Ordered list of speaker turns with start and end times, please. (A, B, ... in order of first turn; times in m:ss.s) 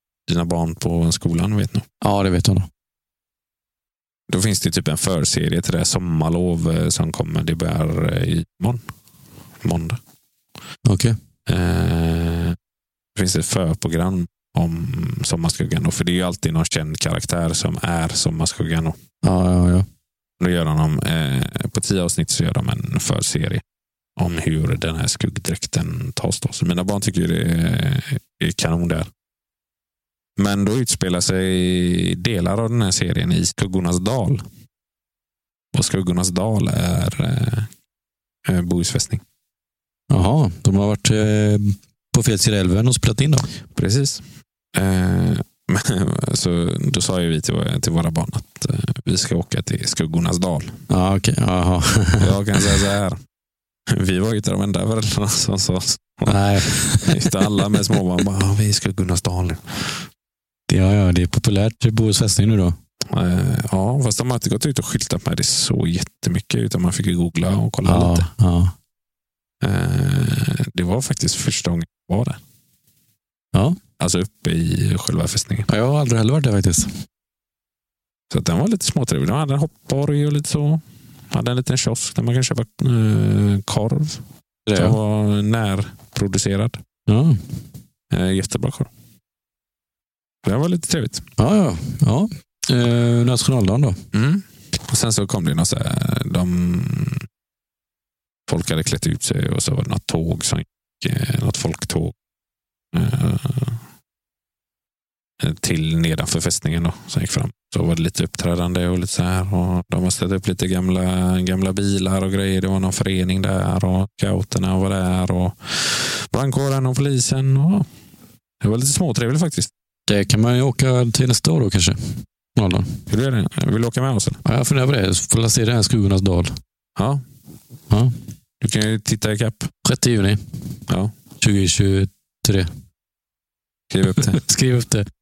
0:00.3-0:01.8 A
0:02.0-0:02.7 B
0:04.3-0:08.8 A
0:09.6-0:10.0 A
0:10.8-0:11.2 B
0:11.5-0:12.6 A
0:13.1-0:19.0 A
0:19.2-0:19.8 B
0:20.4-0:23.6 A
0:24.2-0:29.1 A
0:30.4-0:34.4 A
0:35.7-0:37.7 A
0:38.4-0:39.2 A
0:40.1-0:43.5 B
0:43.7-0:50.8 A
0:50.9-0:52.6 B
0:52.2-0:53.2 A
0:53.9-1:00.0 A
0:56.3-0:57.4 B
1:00.7-1:02.8 B
1:03.1-1:08.3 A
1:07.8-1:08.7 B
1:09.6-1:12.4 A
1:14.0-1:15.7 A
1:15.7-1:16.9 B
1:18.3-1:24.2 A
1:24.7-1:25.0 B
1:24.7-1:26.8 A
1:27.1-1:27.4 B
1:28.1-1:28.9 A
1:30.4-1:31.2 A
1:31.4-1:34.0 B
1:34.1-1:37.2 A
1:38.5-1:42.1 A
1:42.9-1:43.8 A
1:45.4-1:57.9 A
1:58.6-1:59.7 A
2:00.1-2:03.0 B
2:03.1-2:04.4 A
2:04.4-2:06.6 B
2:07.0-2:07.2 A
2:07.9-2:08.1 B
2:08.6-2:09.7 A
2:09.8-2:10.4 B
2:11.4-2:12.7 B
2:13.9-2:14.4 A
2:14.1-2:15.0 B